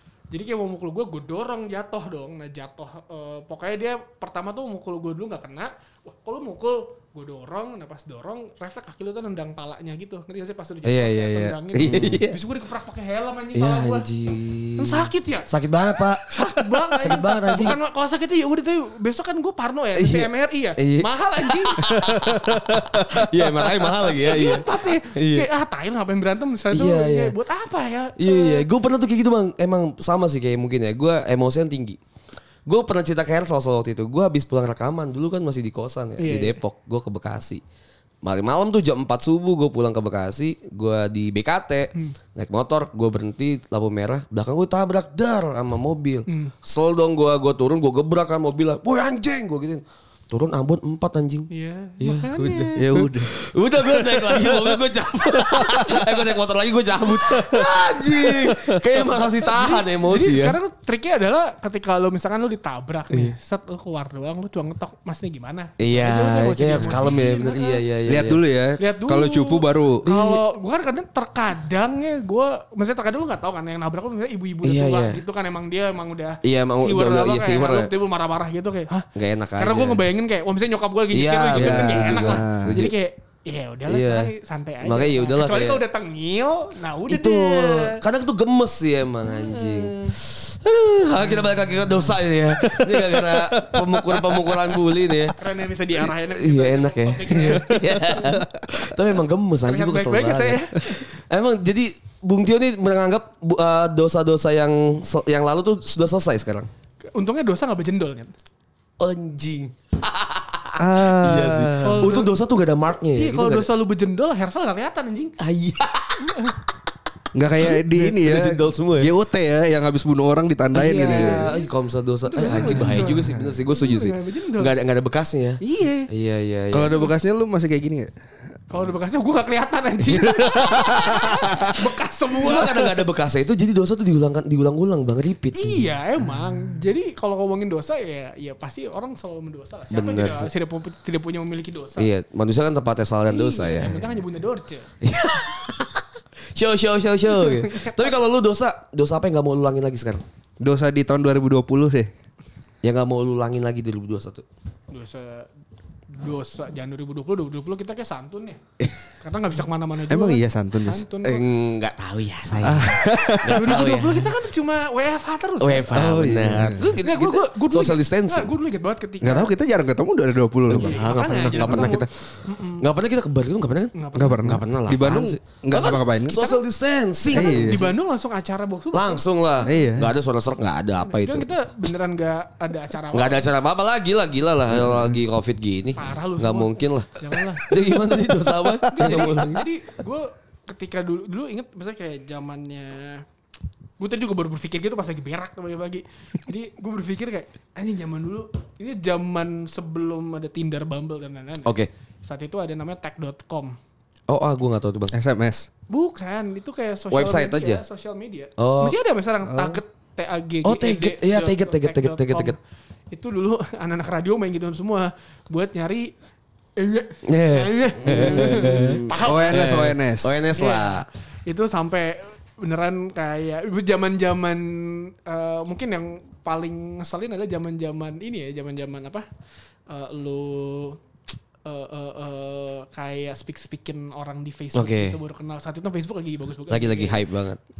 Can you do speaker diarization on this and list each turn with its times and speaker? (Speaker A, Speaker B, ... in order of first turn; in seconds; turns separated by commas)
Speaker A: 0.3-14.1, Speaker B: 10.8-12.4, Speaker C: 11.9-12.2, Speaker B: 13.6-17.8, Speaker A: 14.8-15.5, Speaker A: 16.2-28.7, Speaker B: 19.9-25.5, Speaker C: 21.8-23.3, Speaker B: 26.7-27.3, Speaker B: 28.2-32.0, Speaker B: 32.6-37.6, Speaker A: 36.2-36.6, Speaker B: 38.2-51.5, Speaker A: 46.3-46.5, Speaker A: 51.5-53.0, Speaker B: 52.0-60.6, Speaker C: 52.8-53.3, Speaker C: 55.5-56.1, Speaker C: 57.4-57.7, Speaker C: 58.3-58.6, Speaker A: 59.0-67.8, Speaker B: 65.8-68.4, Speaker C: 66.8-67.2, Speaker C: 68.1-70.1, Speaker A: 68.8-88.0, Speaker B: 70.1-70.4, Speaker B: 74.6-75.2, Speaker B: 76.4-77.9, Speaker B: 79.2-80.0, Speaker B: 81.1-82.9, Speaker C: 81.5-82.8, Speaker B: 83.9-85.8, Speaker B: 87.1-95.4, Speaker A: 89.2-90.2, Speaker A: 91.3-92.1, Speaker C: 93.3-94.4, Speaker A: 95.3-98.9, Speaker B: 95.9-106.7, Speaker C: 97.4-98.9, Speaker A: 99.6-101.1, Speaker A: 107.1-108.3, Speaker B: 109.0-113.7, Speaker C: 110.8-112.2, Speaker A: 111.8-112.3, Speaker A: 113.1-115.4, Speaker B: 115.4-116.5, Speaker A: 116.2-116.6, Speaker C: 117.3-121.5, Speaker B: 117.7-119.1, Speaker B: 120.7-127.0, Speaker A: 120.8-121.7, Speaker A: 122.3-124.7, Speaker C: 122.5-123.5, Speaker A: 125.6-126.1, Speaker C: 126.7-128.1, Speaker A: 128.7-133.0, Speaker B: 130.4-131.4, Speaker C: 130.6-131.3, Speaker B: 132.4-135.9, Speaker A: 135.5-142.1, Speaker B: 139.9-140.5, Speaker B: 142.0-144.1, Speaker A: 143.3-144.9, Speaker B: 145.0-150.2, Speaker A: 147.3-148.1, Speaker C: 150.6-152.1, Speaker B: 152.8-154.4, Speaker A: 154.9-155.5, Speaker A: 156.1-158.6, Speaker A: 159.2-161.4, Speaker C: 160.1-161.1, Speaker B: 161.2-164.4, Speaker C: 162.6-163.8, Speaker A: 162.8-169.5, Speaker B: 165.6-168.5, Speaker C: 165.9-166.9, Speaker C: 169.2-171.9, Speaker B: 170.7-177.9, Speaker A: 170.7-172.9, Speaker A: 173.9-174.6, Speaker C: 174.1-176.4, Speaker A: 176.3-176.6, Speaker A: 177.3-179.2, Speaker C: 177.3-177.9, Speaker B: 178.9-181.5, Speaker C: 179.6-180.1, Speaker A: 181.0-183.4, Speaker B: 183.1-189.7, Speaker C: 184.7-185.2, Speaker A: 185.9-187.8, Speaker A: 188.9-193.2, Speaker A: 194.0-203.8, Speaker B: 204.3-205.1, Speaker C: 205.1-205.7, Speaker A: 205.9-212.6, Speaker B: 207.1-207.8, Speaker B: 208.6-208.9, Speaker C: 209.4-209.8, Speaker B: 210.6-212.6, Speaker A: 213.1-216.1, Speaker A: 216.8-219.7, Speaker B: 217.2-221.1, Speaker C: 218.0-220.4, Speaker A: 220.5-229.2, Speaker A: 229.9-231.0, Speaker A: 231.6-237.2, Speaker B: 234.7-235.2, Speaker B: 236.7-237.6